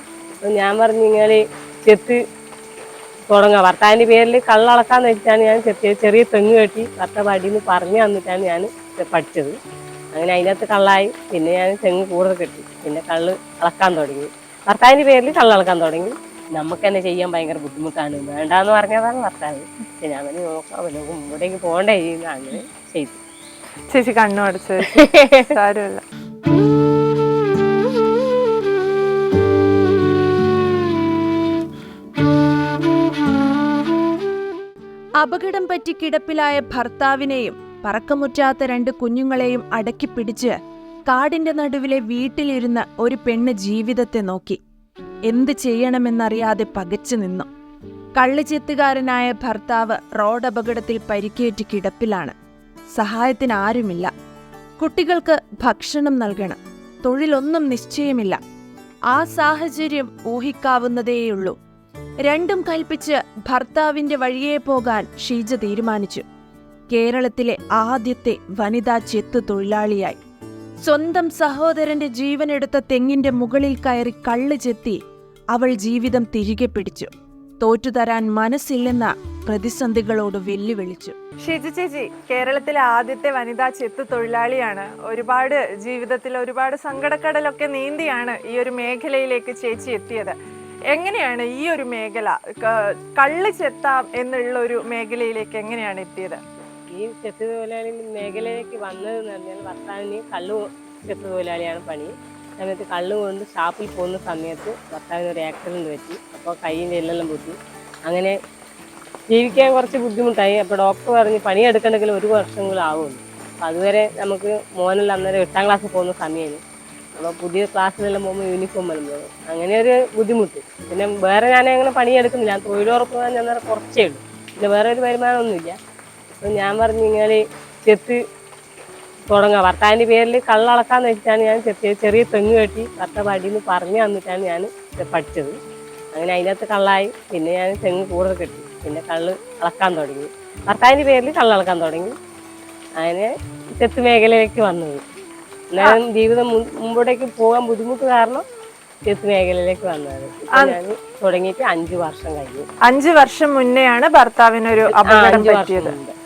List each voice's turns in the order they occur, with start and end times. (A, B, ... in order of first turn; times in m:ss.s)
0:00.4-0:02.2 A
0:03.3-0:09.6 A
0:10.1-0:23.2 A
0:23.9-0:24.9 B
0:24.9-0:25.6 A
0:25.5-0:26.0 B
0:35.2-0:40.6 C
0:41.1-0:44.6 C
0:45.3-0:47.5 C
0:48.2-0:52.4 C
0:53.0-0:54.1 C
0:54.8-0:58.4 C
0:59.1-1:01.6 C
1:02.3-1:06.2 C
1:06.9-1:10.2 C
1:10.8-1:15.0 C
1:15.5-1:21.2 C
1:21.4-1:30.4 B
1:30.9-1:36.4 B
1:36.9-1:47.6 A
1:48.1-1:48.4 A
1:49.3-1:56.6 A
1:57.2-2:05.8 A
2:06.4-2:08.2 A
2:09.3-2:15.6 A
2:16.1-2:22.2 A
2:23.0-2:25.0 A
2:25.7-2:28.4 A
2:29.1-2:32.7 A
2:32.8-2:35.9 B
2:34.9-2:36.1 A